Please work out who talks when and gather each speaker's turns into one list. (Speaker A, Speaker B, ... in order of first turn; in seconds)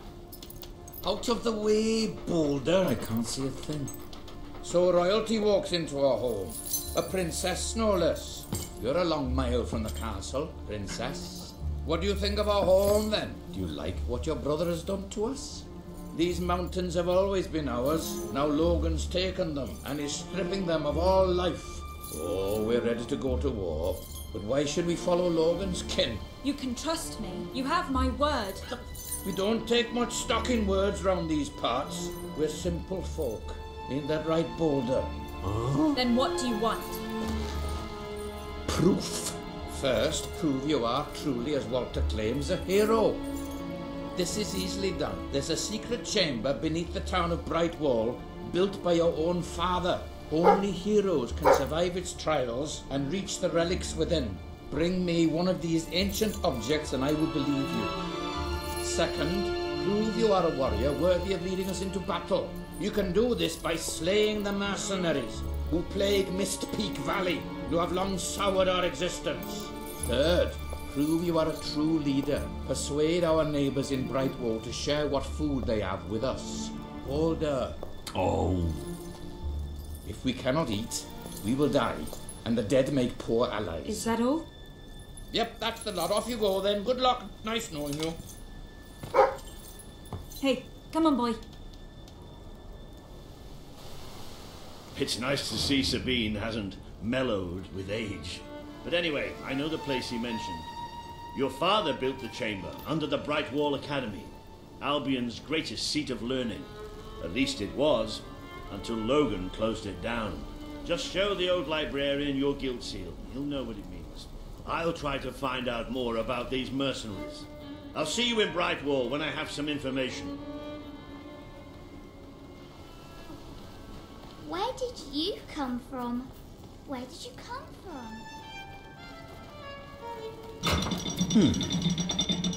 Speaker A: 1.0-3.9, 4.6-26.3, 29.2-35.1, 38.7-43.2, 44.1-58.0, 58.8-77.8, 80.0-84.2, 85.3-88.2
Speaker B: 26.4-28.7, 35.9-37.0, 83.8-84.5, 90.4-91.4
Speaker C: 78.1-78.8, 94.9-100.7, 101.3-120.4, 131.3-131.7
Speaker D: 124.4-126.3, 126.9-128.3